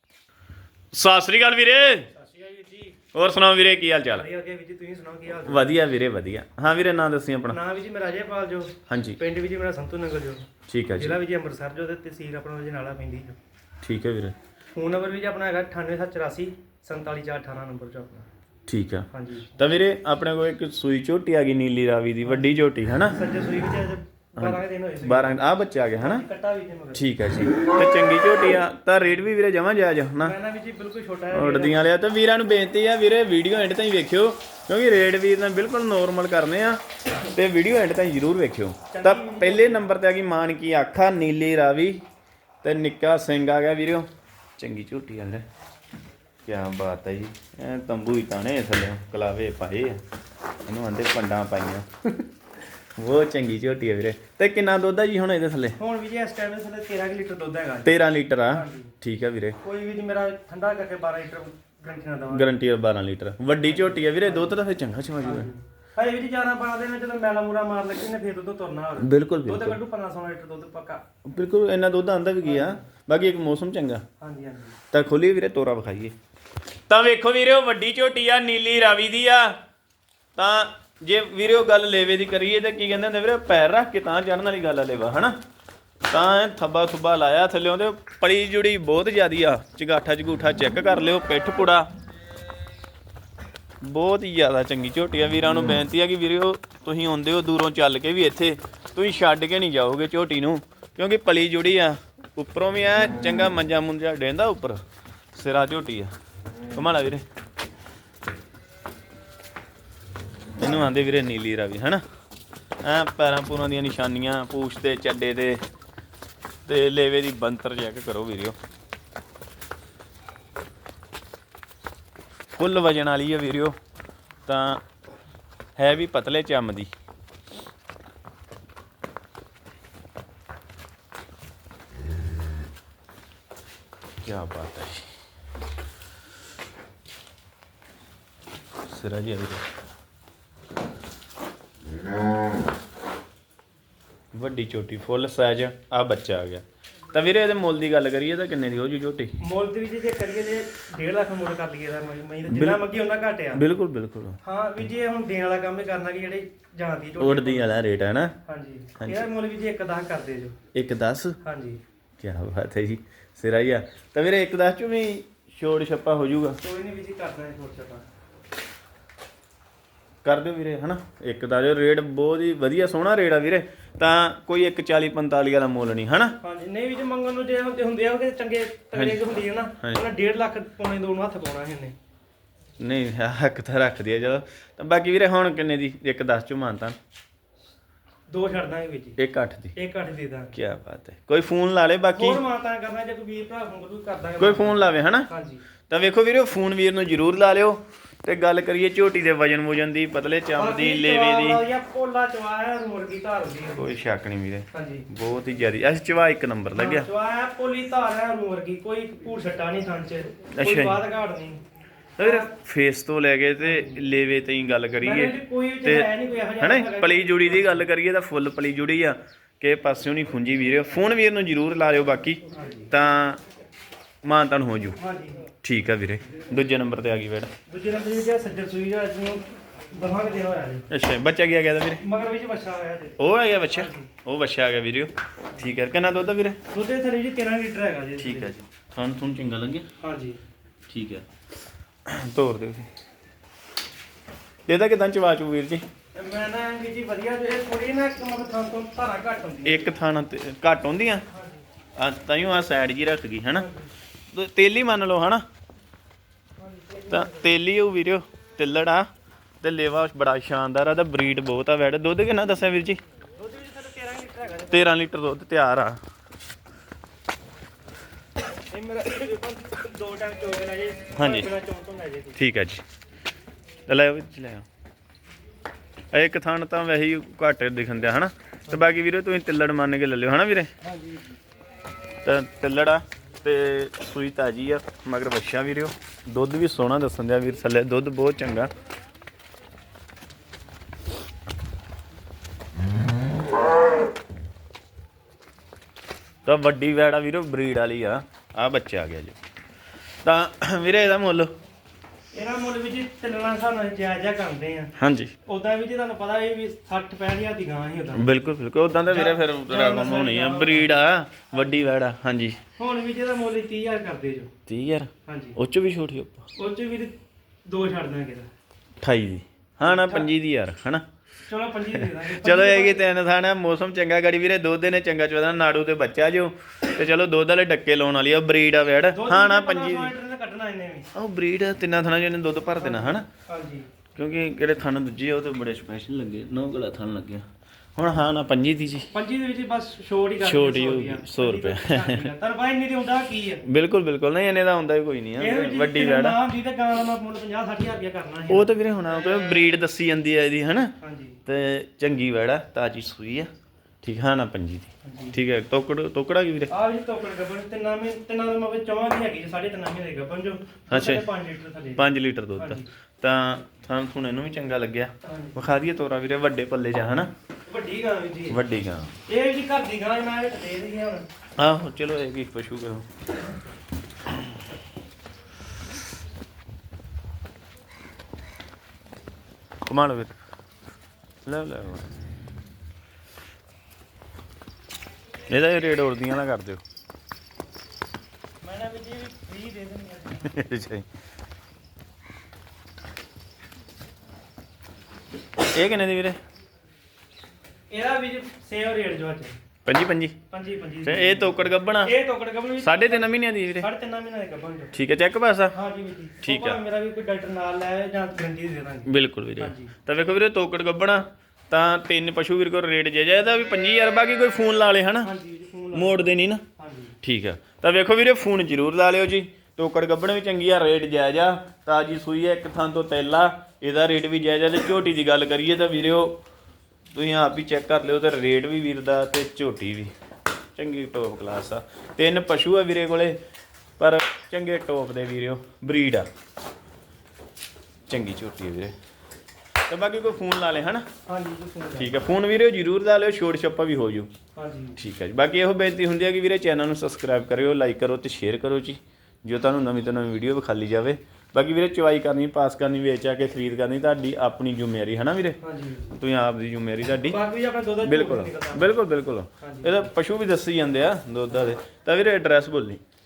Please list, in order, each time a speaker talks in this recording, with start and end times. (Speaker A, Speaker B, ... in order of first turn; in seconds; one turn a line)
Speaker A: 0.9-2.1
Speaker B: 2.1-3.0
Speaker A: 3.1-4.3
Speaker B: 4.1-5.7
Speaker A: 5.5-7.6
Speaker B: 7.5-13.4
Speaker A: 8.9-9.2
Speaker A: 10.7-11.2
Speaker A: 13.8-14.3
Speaker B: 14.7-18.3
Speaker A: 18.7-23.2
Speaker B: 19.1-19.6
Speaker B: 22.2-22.6
Speaker B: 23.1-25.4
Speaker A: 24.4-26.2
Speaker B: 26.0-27.1
Speaker A: 26.9-30.4
Speaker B: 30.2-31.8
Speaker A: 31.3-36.8
Speaker A: 37.4-42.0
Speaker B: 38.9-39.9
Speaker A: 42.6-44.1
Speaker A: 44.6-45.5
Speaker A: 46.5-50.0
Speaker A: 50.6-52.3
Speaker A: 53.0-55.8
Speaker B: 55.8-58.0
Speaker A: 57.9-59.6
Speaker B: 58.5-58.9
Speaker B: 59.6-62.5
Speaker A: 62.3-65.5
Speaker B: 63.6-64.6
Speaker B: 65.2-71.0
Speaker A: 69.0-69.8
Speaker A: 71.2-74.0
Speaker B: 72.4-72.8
Speaker B: 74.2-74.8
Speaker A: 74.9-76.2
Speaker A: 76.9-79.6
Speaker A: 80.4-85.4
Speaker A: 86.1-91.9
Speaker A: 93.8-104.8
Speaker A: 105.3-106.1
Speaker A: 106.7-107.2
Speaker A: 110.6-112.0
Speaker A: 112.8-115.6
Speaker A: 116.7-118.6
Speaker A: 122.6-123.8
Speaker A: 124.5-124.8
Speaker A: 125.8-126.9
Speaker A: 134.2-135.1
Speaker A: 138.9-139.7
Speaker A: 144.3-149.3
Speaker B: 149.4-153.7
Speaker A: 152.5-152.8
Speaker A: 153.5-154.4
Speaker B: 154.4-157.7
Speaker A: 157.2-158.3
Speaker B: 158.4-160.6
Speaker A: 159.0-159.3
Speaker A: 160.7-161.4
Speaker B: 161.4-161.8
Speaker A: 162.2-166.6
Speaker B: 166.6-168.1
Speaker A: 170.2-176.4
Speaker B: 176.4-182.0
Speaker A: 178.9-179.2
Speaker A: 182.8-187.0
Speaker B: 188.3-189.2
Speaker A: 189.2-189.8
Speaker B: 189.8-190.6
Speaker A: 190.6-192.4
Speaker B: 192.2-195.6
Speaker A: 194.4-195.3
Speaker A: 195.9-201.6
Speaker B: 200.6-203.9
Speaker A: 203.8-207.1
Speaker B: 204.7-205.1
Speaker B: 206.7-211.6
Speaker A: 210.5-211.0
Speaker A: 212.2-222.4
Speaker B: 212.2-212.5
Speaker B: 213.6-214.0
Speaker B: 215.0-217.9
Speaker B: 222.5-222.9
Speaker A: 222.9-223.4
Speaker A: 224.2-225.0
Speaker B: 225.0-225.5
Speaker A: 225.6-227.5
Speaker B: 227.7-230.9
Speaker A: 230.9-232.0
Speaker B: 232.0-233.2
Speaker A: 233.2-236.6
Speaker B: 233.7-234.1
Speaker B: 236.7-238.6
Speaker A: 238.2-239.9
Speaker B: 240.0-240.4
Speaker A: 240.9-241.2
Speaker A: 242.1-242.9
Speaker A: 244.7-245.8
Speaker B: 246.2-249.9
Speaker A: 249.7-251.2
Speaker B: 251.3-251.6
Speaker A: 252.0-253.7
Speaker B: 253.5-253.9
Speaker A: 254.3-255.4
Speaker B: 256.6-257.6
Speaker A: 257.1-259.1
Speaker A: 259.6-263.0
Speaker B: 263.4-264.9
Speaker A: 264.7-266.0
Speaker B: 268.7-272.4
Speaker A: 271.2-271.5
Speaker A: 272.4-272.8
Speaker A: 273.9-274.7
Speaker A: 276.1-280.7
Speaker B: 280.8-281.3
Speaker A: 282.2-288.7
Speaker A: 296.5-299.4
Speaker A: 300.2-301.5
Speaker B: 302.3-304.9
Speaker A: 305.0-305.3
Speaker B: 305.4-308.4
Speaker A: 308.1-312.6
Speaker B: 309.1-311.0
Speaker B: 311.5-311.8
Speaker B: 312.8-314.5
Speaker A: 314.7-316.4
Speaker B: 315.2-315.6
Speaker B: 316.6-317.1
Speaker B: 317.7-318.5
Speaker A: 319.0-321.0
Speaker B: 319.8-320.3
Speaker B: 321.5-323.1
Speaker A: 321.9-330.1
Speaker B: 329.1-331.1
Speaker A: 331.1-333.3
Speaker B: 332.8-333.9
Speaker A: 334.2-339.1
Speaker B: 339.1-343.6
Speaker A: 340.4-342.3
Speaker A: 343.7-346.4
Speaker B: 345.4-348.7
Speaker A: 348.5-350.9
Speaker B: 351.0-351.4
Speaker A: 351.5-353.5
Speaker A: 354.0-356.7
Speaker B: 355.0-355.4
Speaker B: 356.7-362.9
Speaker A: 360.9-361.3
Speaker A: 362.0-367.3
Speaker B: 365.2-365.6
Speaker B: 367.7-368.6
Speaker A: 368.5-369.1
Speaker B: 369.3-371.3
Speaker A: 371.6-373.1
Speaker A: 379.9-380.3
Speaker A: 381.5-382.1
Speaker A: 385.5-386.8
Speaker B: 388.6-390.7
Speaker A: 390.4-391.1
Speaker A: 395.6-396.4
Speaker B: 397.9-399.6
Speaker A: 399.9-400.4
Speaker B: 400.5-404.9
Speaker A: 401.0-402.1
Speaker A: 402.8-403.9
Speaker A: 404.9-405.8
Speaker B: 405.7-409.9
Speaker A: 406.4-406.8
Speaker A: 409.1-415.3
Speaker B: 415.2-417.1
Speaker A: 415.9-416.6
Speaker A: 417.2-426.4
Speaker A: 427.1-430.1
Speaker A: 430.8-433.4
Speaker A: 434.0-436.3
Speaker A: 438.1-438.9
Speaker A: 439.9-441.1
Speaker B: 441.3-442.2
Speaker A: 442.0-444.3
Speaker B: 444.6-445.0
Speaker A: 445.0-455.6
Speaker B: 455.6-456.2
Speaker A: 456.2-457.4
Speaker B: 457.2-458.9
Speaker A: 458.0-463.0
Speaker B: 459.6-460.1